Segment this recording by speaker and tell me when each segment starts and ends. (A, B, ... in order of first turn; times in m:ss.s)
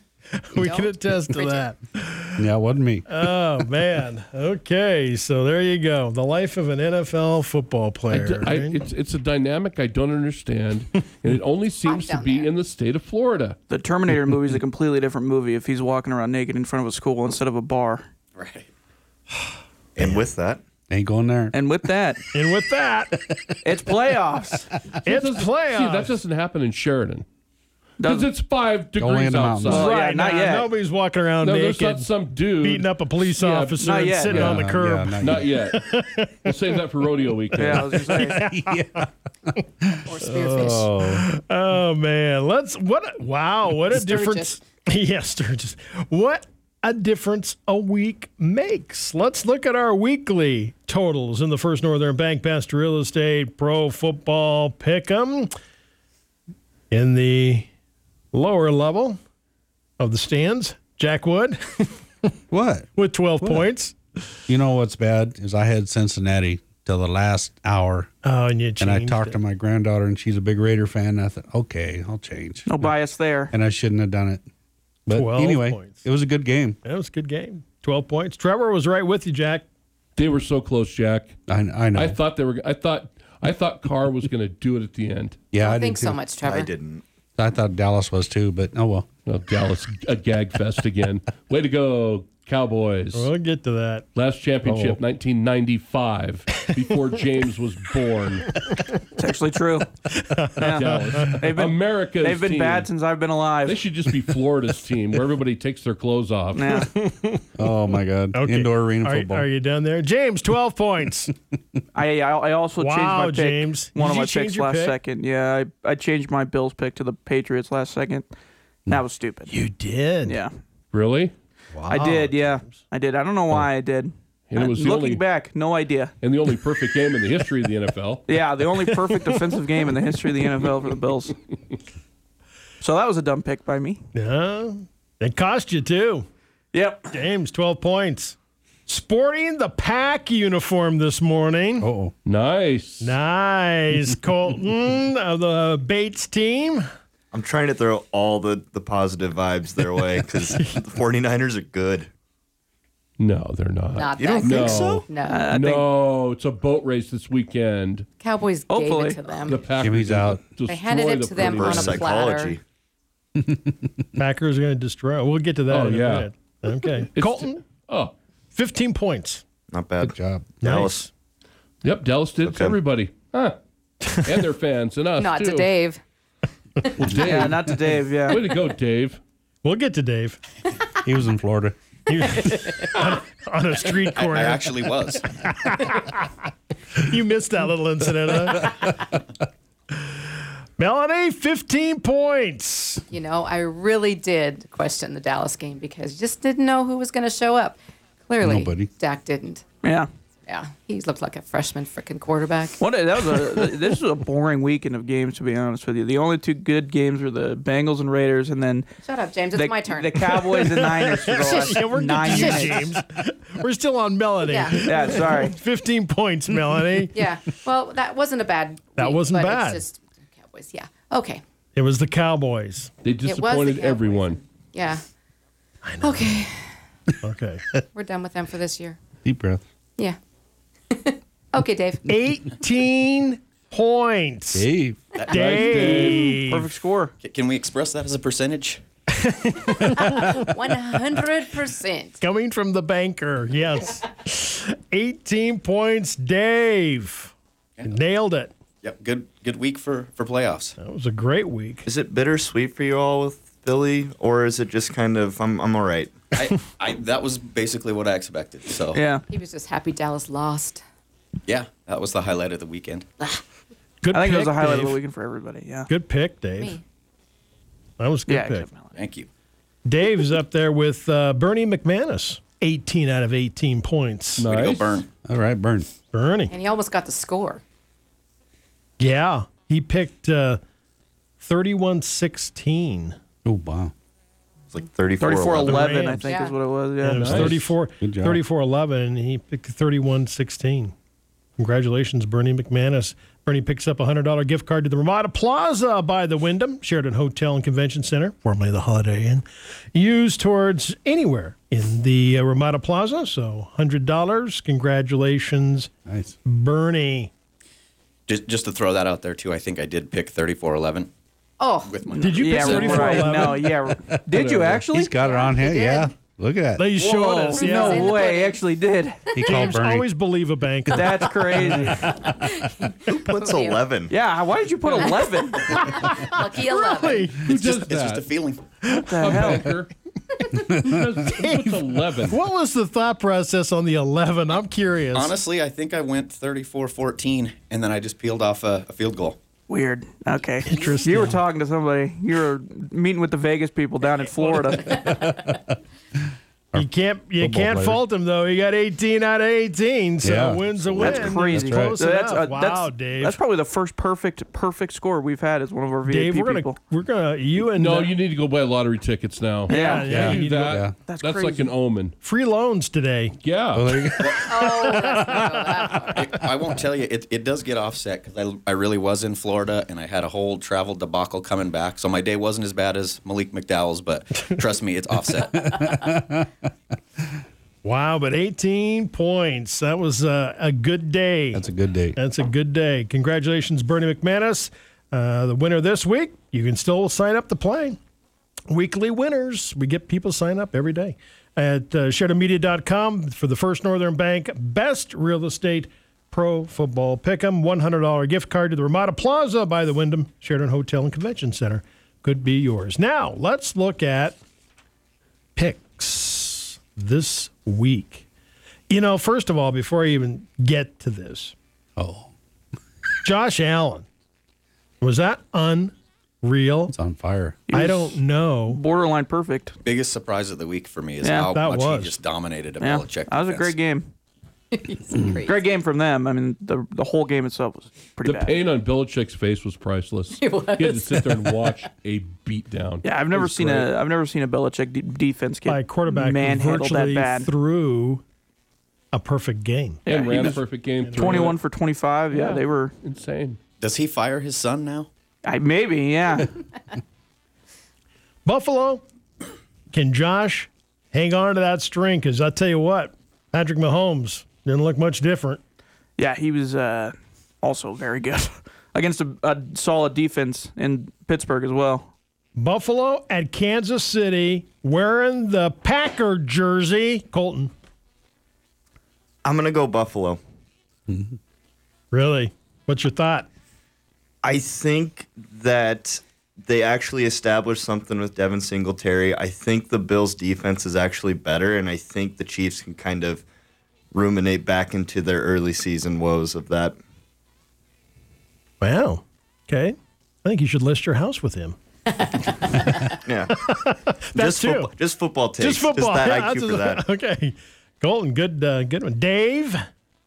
0:00.5-0:02.4 A
0:00.6-0:01.7 B
0:02.4-0:03.0 C
0:03.1-0:08.8 A
0:08.1-0:13.6 D
0:11.8-0:12.5 B
0:13.7-0:18.1 E
0:18.4-0:18.7 F
0:20.0-0:20.6 G
0:20.9-0:21.5 C
0:21.5-0:22.2 E
0:22.3-0:23.2 A
0:23.6-0:24.7 E
0:25.0-0:26.2 A
0:25.0-0:27.2 D
0:28.0-0:28.3 E
0:28.0-0:29.9 D
0:29.0-0:29.9 C
0:29.7-0:36.6 A
0:29.7-0:30.7 E
0:31.4-0:34.6 D
0:33.8-0:34.5 E
0:34.3-0:35.5 C
0:35.2-0:35.8 D
0:36.4-0:38.0 D
0:37.6-0:38.4 E
0:37.8-0:39.6 A
0:38.1-0:39.0 C
0:40.0-0:40.9 B
0:40.2-0:55.5 A
0:40.5-0:41.2 C
0:43.9-0:44.6 B
0:56.9-0:57.7 A
0:58.3-0:59.2 A
1:00.0-1:02.3 A
1:02.5-1:02.9 C
1:03.0-1:04.0 A
1:04.5-1:08.1 C
1:08.2-1:09.4 A
1:08.8-1:12.8 C
1:12.6-1:13.5 E
1:13.5-1:14.4 C
1:15.0-1:16.8 C
1:15.1-1:16.0 A
1:16.8-1:19.6 A
1:20.2-1:21.3 D
1:21.5-1:22.2 C
1:21.9-1:25.4 D
1:25.5-1:26.2 C
1:25.6-1:26.7 B
1:26.4-1:27.0 G
1:27.4-1:29.0 C
1:29.3-1:33.3 D
1:33.1-1:34.0 A
1:34.1-1:38.6 D
1:34.6-1:35.0 C
1:38.5-1:39.0 A
1:39.2-1:39.9 E
1:40.1-1:41.4 A
1:40.6-1:43.8 E
1:40.7-1:42.9 D
1:43.6-1:46.8 D
1:46.5-1:46.9 E
1:46.7-1:47.4 A
1:47.6-1:49.5 C
1:48.3-1:51.3 A
1:51.9-1:58.3 E
1:52.8-1:55.0 A
1:58.9-1:59.5 E
1:59.5-2:00.4 A
2:00.2-2:00.5 E
2:00.9-2:01.3 D
2:01.7-2:02.8 A
2:01.9-2:06.1 E
2:04.5-2:05.2 D
2:06.2-2:08.2 D
2:08.3-2:11.3 E
2:08.9-2:09.5 A
2:12.8-2:14.0 E
2:14.1-2:16.3 A
2:16.7-2:17.1 E
2:17.1-2:18.4 A
2:18.9-2:21.9 A
2:21.8-2:22.1 C
2:22.2-2:23.1 D
2:23.0-2:26.8 A
2:27.3-2:32.1 G
2:30.5-2:30.8 A
2:33.2-2:38.1 D
2:33.9-2:35.5 B
2:34.2-2:35.0 G
2:34.7-2:35.8 E
2:38.2-2:39.7 B
2:38.7-2:39.2 E
2:39.3-2:42.1 D
2:39.8-2:40.4 C
2:40.6-2:42.6 B
2:41.3-2:42.6 G
2:43.4-2:43.9 C
2:44.2-2:47.6 A
2:45.7-2:46.3 D
2:47.1-2:48.1 D
2:48.5-2:49.4 A
2:49.7-2:51.0 G
2:50.0-2:50.8 C
2:50.6-2:51.1 A
2:51.8-2:53.6 D
2:52.4-2:52.8 G
2:54.0-2:54.3 A
2:54.2-2:55.7 D
2:55.2-2:56.0 B
2:57.0-2:57.7 D
2:57.2-2:58.4 E
2:58.3-2:59.2 D
2:59.6-3:00.4 A
3:01.0-3:01.8 C
3:02.1-3:06.4 A
3:02.4-3:02.8 B
3:04.1-3:05.3 F
3:06.9-3:09.0 A
3:10.0-3:13.0 A
3:13.1-3:19.6 B
3:18.4-3:18.9 C
3:20.5-3:22.8 B
3:22.8-3:28.9 E
3:29.0-3:30.2 B
3:29.5-3:32.9 E
3:30.3-3:37.2 A
3:31.4-3:32.9 B
3:34.4-3:35.1 B
3:34.9-3:35.5 E
3:37.1-3:41.4 B
3:39.0-3:39.8 A
3:41.7-3:42.9 A
3:43.0-3:44.4 D
3:43.2-3:45.0 B
3:45.8-3:46.4 A
3:46.0-3:46.7 B
3:47.2-3:47.8 A
3:47.9-3:49.0 B
3:49.2-3:49.6 C
3:50.9-3:52.2 B
3:52.1-3:54.7 A
3:54.5-3:55.0 C
3:55.2-3:56.1 F
3:55.3-3:56.7 A
3:55.3-3:56.4 D
3:56.2-3:57.1 E
3:57.2-3:58.8 F
3:59.1-4:00.2 A
3:59.8-4:02.2 B
4:02.2-4:07.3 A
4:07.8-4:08.5 A
4:08.8-4:10.7 F
4:10.8-4:11.8 A
4:11.8-4:16.3 G
4:16.3-4:19.0 F
4:18.9-4:19.2 E
4:19.3-4:20.8 B
4:21.5-4:23.0 F
4:24.0-4:25.0 A
4:24.1-4:25.9 E
4:25.9-4:26.8 A
4:26.6-4:26.8 B
4:28.0-4:28.7 A
4:28.3-4:28.9 E
4:28.9-4:29.3 F
4:29.8-4:34.5 A
4:34.4-4:35.0 D
4:34.4-4:35.1 F
4:35.2-4:35.9 C
4:36.1-4:36.5 A
4:36.5-4:37.6 B
4:39.0-4:40.6 A
4:41.4-4:43.2 A
4:43.4-4:43.9 C
4:44.7-4:46.1 G
4:45.2-4:47.6 E
4:45.6-4:46.3 A
4:46.3-4:46.6 B
4:47.0-4:50.9 A
4:47.2-4:47.7 D
4:48.0-4:48.4 C
4:51.6-5:05.9 A
5:06.1-5:06.4 C
5:06.4-5:07.3 A
5:08.3-5:11.1 F
5:11.6-5:12.0 B
5:11.8-5:13.4 F
5:12.2-5:13.7 A
5:12.4-5:15.1 E
5:14.4-5:16.9 C
5:15.1-5:16.1 B
5:16.8-5:18.1 A
5:17.0-5:19.2 E
5:17.5-5:18.6 B
5:19.4-5:20.1 C
5:19.4-5:22.4 A
5:20.9-5:22.0 E
5:22.0-5:23.9 B
5:23.0-5:24.1 G
5:24.1-5:25.8 E
5:25.0-5:27.4 B
5:25.7-5:27.5 A
5:27.4-5:28.2 D
5:27.4-5:28.7 F
5:28.8-5:29.7 A
5:29.0-5:29.7 E
5:29.2-5:29.9 D
5:30.7-5:32.4 D
5:31.2-5:35.4 A
5:35.1-5:39.4 F
5:39.7-5:45.1 E
5:40.6-5:41.4 A
5:40.8-5:41.0 F
5:45.0-5:45.5 B
5:45.1-5:45.4 C
5:46.7-5:53.4 A
5:47.4-5:48.0 C
5:50.2-5:52.0 C
5:51.0-5:56.8 E
5:56.0-5:58.2 A
5:57.7-6:02.1 D
5:59.7-6:00.8 A
5:59.7-6:00.1 E
6:00.1-6:00.9 C
6:01.0-6:01.7 E
6:02.2-6:03.3 A
6:03.4-6:04.0 D
6:03.7-6:05.7 C
6:04.2-6:04.5 F
6:04.4-6:06.4 B
6:06.1-6:15.6 F
6:15.5-6:16.5 C
6:17.8-6:21.6 A
6:21.5-6:22.2 C
6:22.2-6:28.0 A
6:28.7-6:44.4 A
6:45.5-6:48.2 A
6:48.9-6:51.5 A
6:52.0-6:52.3 C
6:53.2-6:54.0 A
6:55.0-6:56.9 A
6:56.9-6:57.6 C
6:57.7-6:59.7 E
6:57.7-6:58.8 A
6:59.8-7:03.8 F
7:01.2-7:01.5 E
7:01.5-7:02.2 A
7:02.8-7:04.1 E
7:04.7-7:05.6 B
7:05.4-7:08.6 E
7:08.2-7:13.9 D
7:10.3-7:11.7 B
7:13.0-7:17.5 E
7:15.6-7:18.2 A
7:19.1-7:20.0 A
7:20.0-7:21.6 D
7:20.0-7:20.6 E
7:21.0-7:21.5 A
7:21.2-7:22.9 E
7:22.3-7:23.6 D
7:23.8-7:25.1 F
7:25.4-7:26.6 E
7:28.4-7:29.0 A
7:29.9-7:35.6 A
7:36.2-7:42.1 E
7:42.6-7:47.7 A
7:49.4-7:50.4 G
7:52.1-7:53.5 A
7:54.4-8:03.4 G
8:04.1-8:07.0 G
8:08.8-8:11.8 A
8:12.1-8:13.2 B
8:13.2-8:13.5 G
8:13.5-8:14.9 A
8:14.3-8:17.0 G
8:15.6-8:19.8 A